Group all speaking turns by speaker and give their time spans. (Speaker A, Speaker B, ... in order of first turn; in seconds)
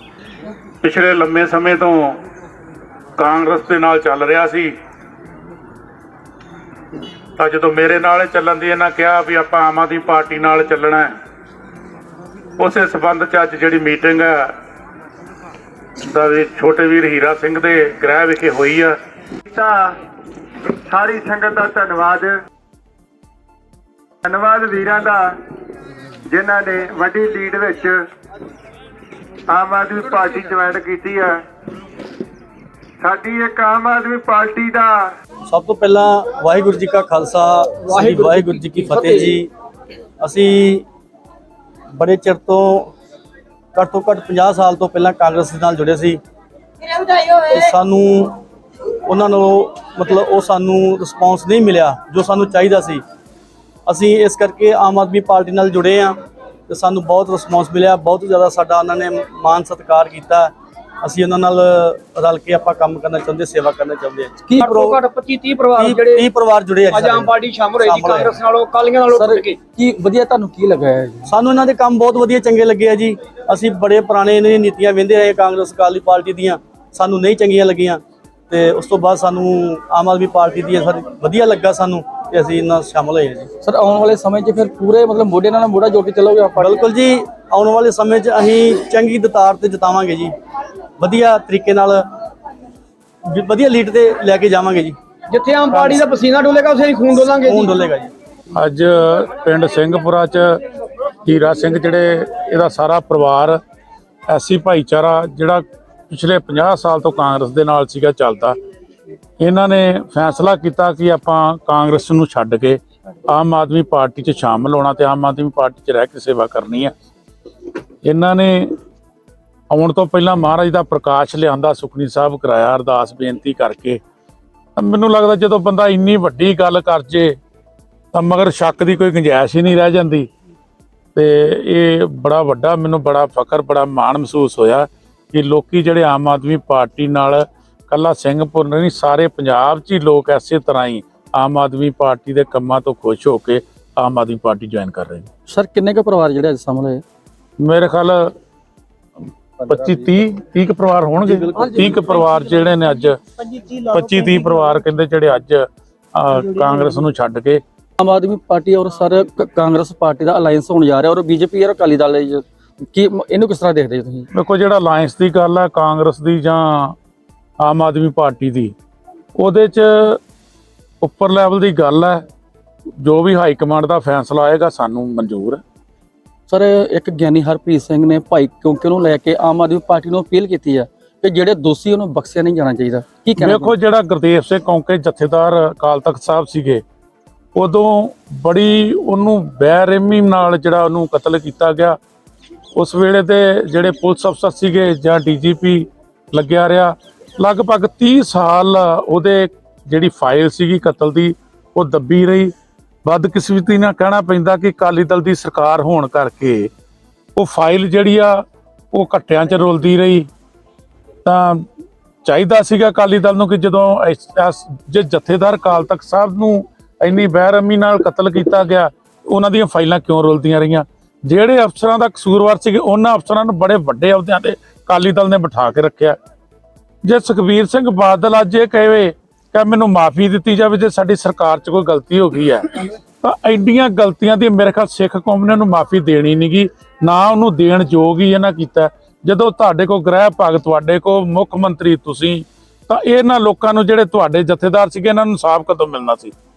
Speaker A: 0.8-2.2, 3.2-4.7, 7.4-11.1, 12.6-14.5, 16.0-18.9, 98.6-100.6, 101.2-103.6, 104.3-108.6, 109.4-116.9, 118.0-118.7, 119.7-124.0, 124.8-127.3, 128.1-130.3, 131.2-145.3, 147.6-148.3, 149.7-153.2, 153.7-157.6, 164.3-166.9, 167.6-168.7, 169.4-170.2, 171.0-172.2, 173.0-175.6, 183.4-186.8, 187.6-192.0, 192.8-202.5, 203.1-206.7, 207.3-210.3, 211.2-211.7, 212.2-226.2, 227.1-246.3
Speaker B: 19.5-20.0, 20.9-22.4, 24.2-25.4, 26.3-28.0, 29.5-31.4, 33.0-35.1
Speaker C: 35.5-39.5, 40.2-40.9, 42.0-42.9, 43.7-46.2, 47.3-48.4, 49.1-53.0, 53.9-56.2, 56.7-60.5, 61.0-65.0, 65.8-68.3, 71.3-83.5, 86.6-90.3, 91.0-92.0, 93.3-95.0, 95.7-96.0, 97.1-98.1
Speaker D: 37.9-39.4, 64.6-66.3, 66.9-69.6, 95.3-97.8
Speaker E: 69.1-71.3, 83.6-86.8, 145.5-147.0, 149.7-149.9, 151.6-151.8, 158.0-164.3, 176.5-183.8